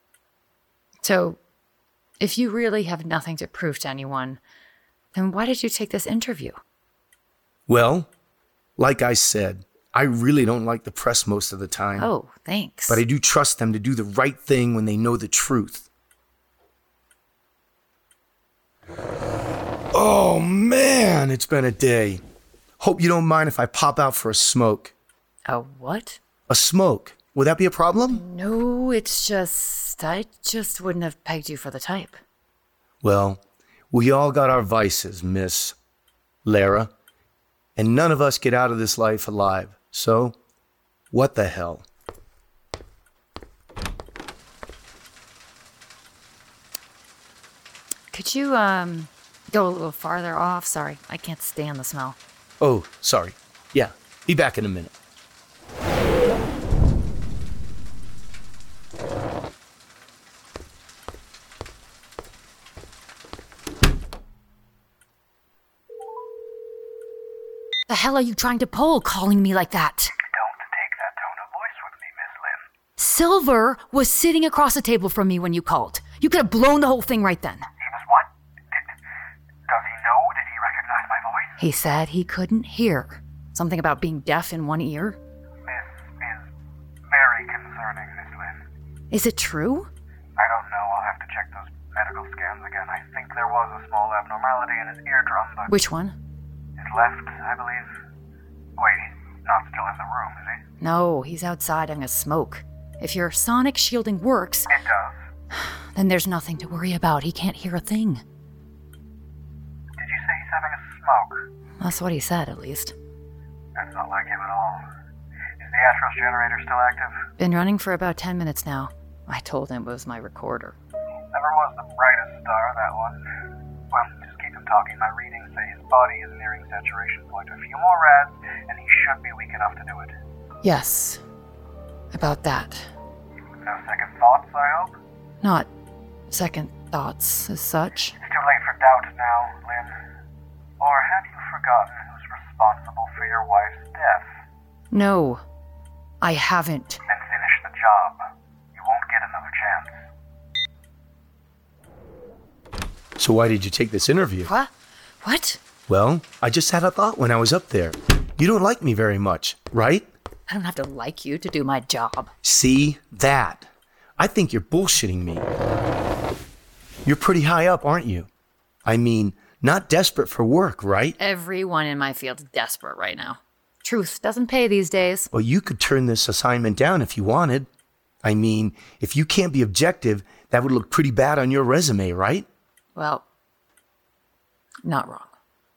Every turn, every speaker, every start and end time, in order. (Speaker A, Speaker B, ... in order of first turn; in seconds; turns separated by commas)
Speaker A: 1.0-1.4, Speaker A: 2.2-4.4, Speaker A: 5.1-6.6, Speaker B: 7.7-8.1, Speaker B: 8.8-12.1, Speaker A: 12.0-13.0, Speaker B: 12.9-15.9, Speaker B: 19.9-22.2, Speaker B: 22.8-24.9, Speaker A: 25.5-26.2, Speaker B: 26.5-28.2, Speaker A: 28.1-32.2, Speaker B: 33.0-35.8, Speaker B: 36.5-36.9, Speaker B: 37.8-40.4, Speaker B: 41.1-41.8, Speaker A: 48.1-52.2, Speaker B: 52.6-54.9, Speaker A: 67.9-70.1, Speaker C: 70.2-72.7, Speaker A: 73.0-77.7, Speaker C: 77.8-78.8, Speaker C: 79.7-81.6, Speaker A: 81.6-85.2, Speaker C: 85.6-86.5, Speaker C: 87.1-88.6, Speaker A: 89.1-89.9, Speaker C: 90.4-95.8, Speaker A: 95.7-96.2, Speaker C: 96.8-97.9, Speaker C: 98.8-100.6, Speaker A: 100.8-104.7, Speaker C: 104.7-105.2, Speaker A: 105.6-108.2, Speaker C: 110.0-111.5, Speaker A: 111.8-113.0, Speaker C: 113.8-114.9, Speaker C: 115.6-117.2, Speaker A: 117.4-120.8, Speaker C: 121.3-123.2, Speaker C: 123.9-130.1, Speaker A: 130.6-131.2, Speaker A: 132.1-132.9, Speaker C: 133.6-134.9, Speaker A: 135.4-135.7, Speaker A: 136.3-138.2, Speaker C: 138.2-140.0, Speaker C: 140.8-144.3, Speaker A: 144.9-145.4, Speaker A: 146.2-147.0, Speaker C: 147.1-148.2, Speaker C: 148.7-150.1, Speaker B: 153.2-154.5, Speaker A: 154.4-154.7, Speaker A: 155.2-155.6, Speaker B: 155.9-160.1, Speaker A: 160.5-162.3, Speaker B: 162.4-165.5, Speaker B: 167.1-168.3, Speaker B: 168.9-171.2, Speaker A: 171.2-175.3, Speaker B: 175.3-177.7, Speaker B: 178.2-182.5, Speaker A: 183.0-183.2, Speaker A: 184.8-185.3